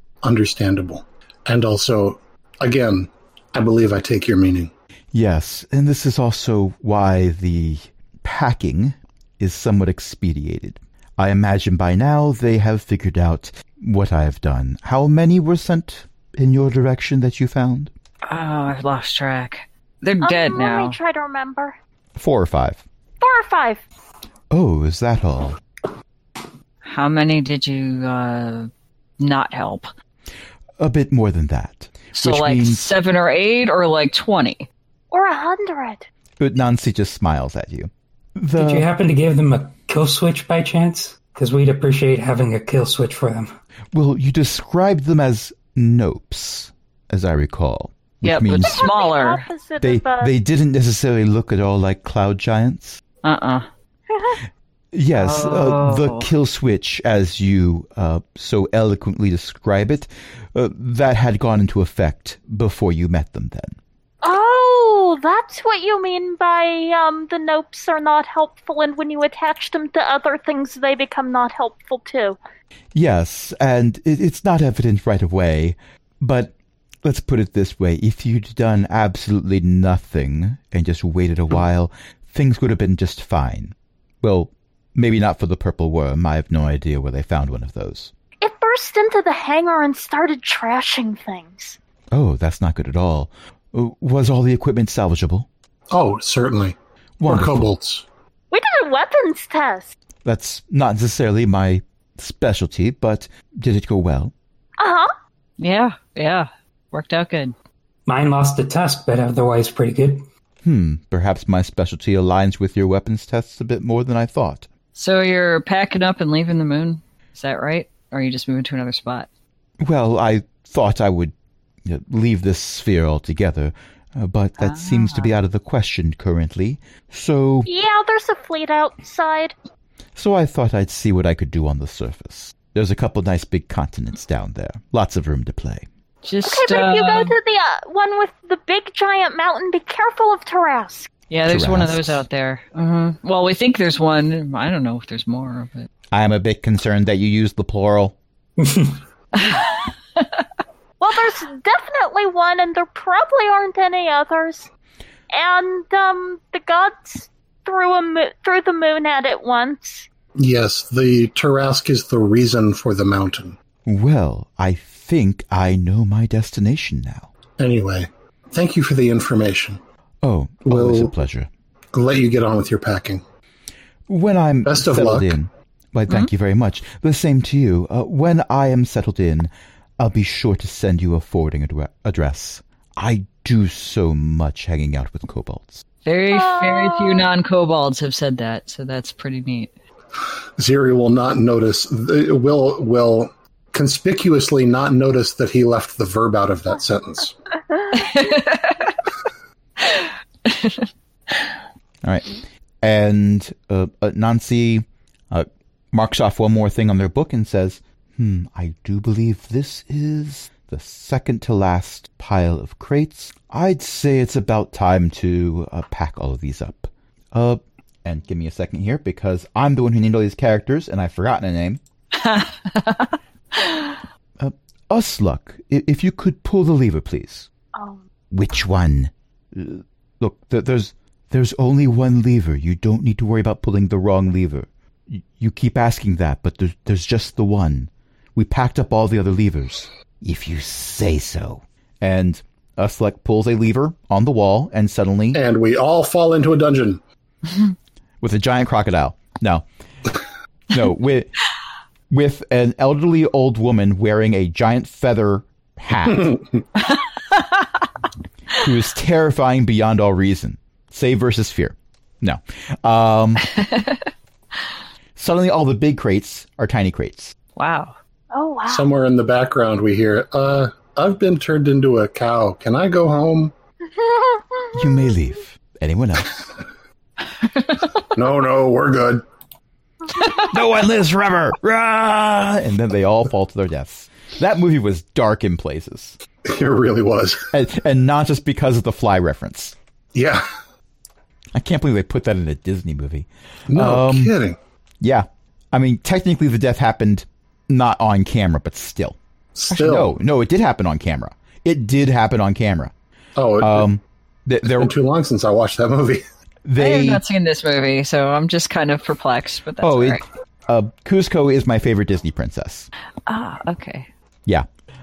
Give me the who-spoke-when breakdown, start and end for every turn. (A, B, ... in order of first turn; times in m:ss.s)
0:00.2-0:04.7 A
0:05.1-0:17.9 B
0:18.2-0:21.0 C
0:20.2-0:21.8 D
0:22.2-0:22.8 B
0:23.2-0:23.8 D
0:24.5-0:25.6 B
0:26.8-0:29.9 C
0:30.8-0:32.9 B
0:32.1-0:34.7 C
0:35.1-0:36.1 D
0:36.4-0:38.9 B
0:38.6-0:43.5 E
0:43.9-0:48.9 B
0:48.2-0:49.4 C
0:48.6-0:50.3 D
0:49.8-0:53.0 B
0:53.2-0:53.7 C
0:54.1-0:54.4 D
0:54.9-1:03.8 B
0:55.2-0:56.2 C
1:04.2-1:12.4 D
1:12.9-1:28.1 B
1:28.4-1:31.8 D
1:32.1-1:35.5 B
1:35.9-1:38.0 A
1:37.2-1:37.7 B
1:38.5-1:39.9 D
1:40.2-1:44.3 B
1:44.8-1:45.1 D
1:45.6-1:47.5 C
1:48.1-1:50.2 E
1:50.6-1:54.7 B
1:54.9-1:59.3 C
1:59.8-2:07.7 B
2:04.6-2:05.3 C
2:07.6-2:09.5 D
2:10.2-2:15.9 B
2:16.2-2:17.3 C
2:16.4-2:21.1 D
2:21.3-2:25.9 C
2:21.4-2:22.2 B
2:26.1-2:28.2 B
2:29.3-2:30.3 C
2:31.0-2:34.7 D
2:35.3-2:40.1 D
2:40.4-2:43.6 A
2:43.8-2:47.3 B
2:47.6-2:49.8 A
2:50.2-2:51.5 B
2:50.7-2:51.1 A
2:51.9-2:53.2 A
2:54.1-3:05.8 B
2:54.6-2:55.3 A
3:06.0-3:09.7 C
3:06.3-3:07.3 D
3:10.6-3:17.3 A
3:17.9-3:18.9 C
3:19.8-3:21.5 C
3:22.0-3:41.8 B
3:42.1-3:44.0 C
3:44.4-3:47.5 B
3:47.7-3:48.0 D
3:48.3-4:05.4 B
4:05.3-4:07.0 A
4:08.2-4:09.6 B
4:10.7-4:11.3 B
4:12.1-4:16.4 B
4:16.2-4:16.4 A
4:18.5-4:23.5 B
4:23.7-4:24.0 C
4:25.2-4:27.3 B
4:27.6-4:27.9 C
4:28.3-4:28.9 D
4:28.7-4:33.5 A
4:34.0-4:34.7 D
4:34.7-4:36.4 B
4:38.1-4:39.2 A
4:40.4-4:46.2 B
4:46.4-4:47.5 A
4:47.5-4:49.7 B
4:50.1-4:50.4 A
4:51.5-4:54.4 B
4:53.7-4:54.6 A
4:55.0-4:59.2 B
4:59.5-5:00.1 A
4:59.7-5:02.9 B
5:03.4-5:03.9 A
5:03.6-5:04.9 B
5:04.7-5:06.2 A
5:06.6-5:07.2 B
5:06.8-5:10.2 C
5:09.8-5:12.9 B
5:13.3-5:14.1 C